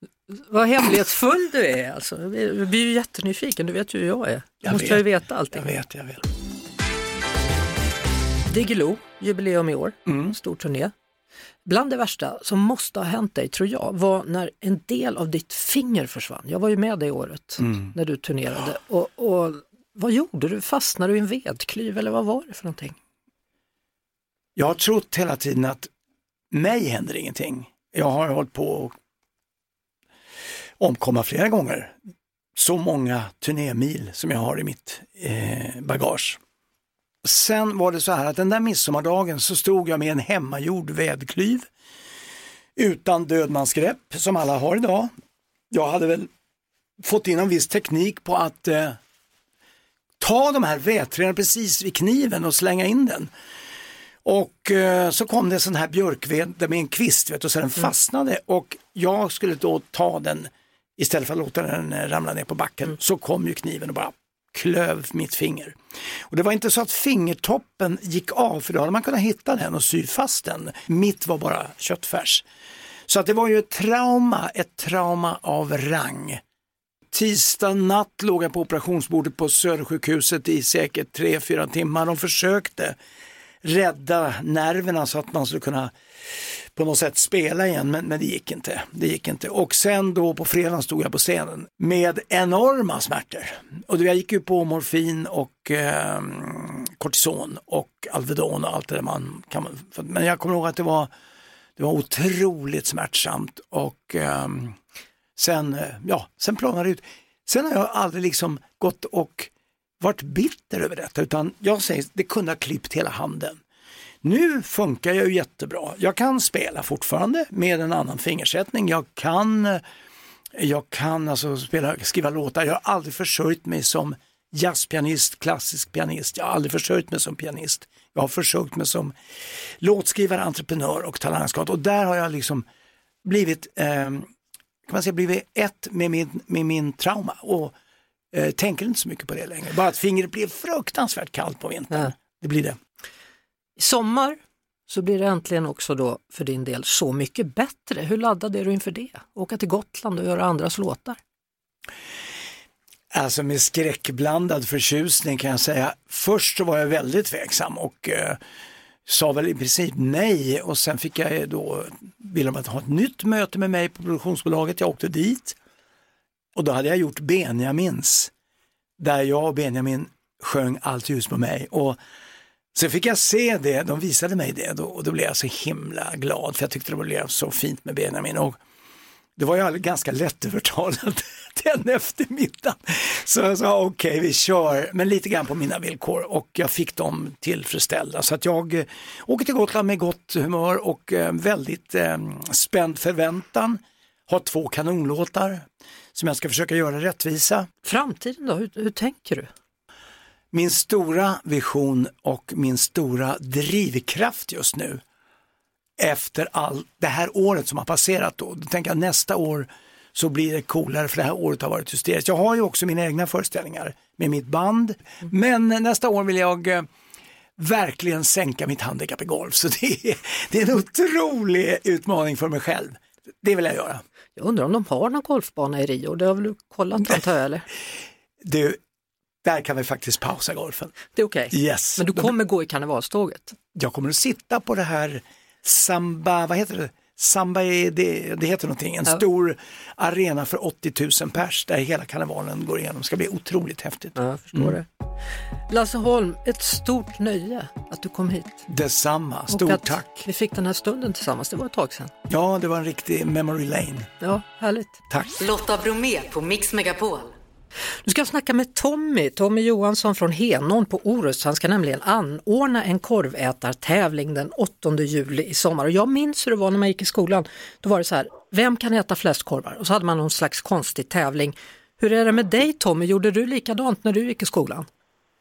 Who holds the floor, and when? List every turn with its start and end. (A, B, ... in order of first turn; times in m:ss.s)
0:00.3-0:05.6 A
0:04.6-0:06.2 B
0:08.5-0:10.9 A
0:10.0-0:10.3 B
0:11.6-0:23.0 A
0:17.6-0:17.9 B
0:24.6-0:25.9 B
0:26.5-0:28.9 B
0:30.8-0:32.0 B
0:32.6-0:36.4 B
0:37.2-0:41.7 B
0:42.8-0:45.1 B
0:45.7-0:46.3 B
0:47.0-0:49.0 B
0:50.2-0:53.3 B
0:54.2-1:05.8 B
1:06.3-1:12.4 B
1:13.1-1:16.4 B
1:17.1-1:23.0 B
1:23.6-1:25.9 B
1:26.7-1:41.1 B
1:41.8-1:44.8 B
1:45.4-1:53.6 B
1:54.2-1:59.8 B
2:00.5-2:09.1 B
2:09.8-2:12.6 B
2:13.2-2:14.3 B
2:14.9-2:17.7 B
2:18.3-2:22.8 B
2:23.8-2:31.2 A
2:33.1-2:38.4 B
2:39.0-2:45.6 B
2:46.5-2:48.3 B
2:49.0-2:52.0 B
2:52.7-2:58.6 B
2:59.4-3:17.7 B
3:17.8-3:19.5 A
3:20.5-3:25.0 B
3:26.0-3:36.9 B
3:37.6-3:44.0 B
3:44.4-3:47.6 A
3:48.4-3:48.8 B
3:49.4-3:50.9 B
3:51.1-3:53.5 A
3:51.5-3:52.3 B
3:53.7-4:04.8 B
4:04.2-4:04.9 A
4:05.7-4:08.6 A
4:08.7-4:10.3 B
4:09.5-4:12.1 A
4:12.3-4:14.1 B
4:14.2-4:15.0 A
4:15.4-4:17.3 C
4:18.0-4:34.9 A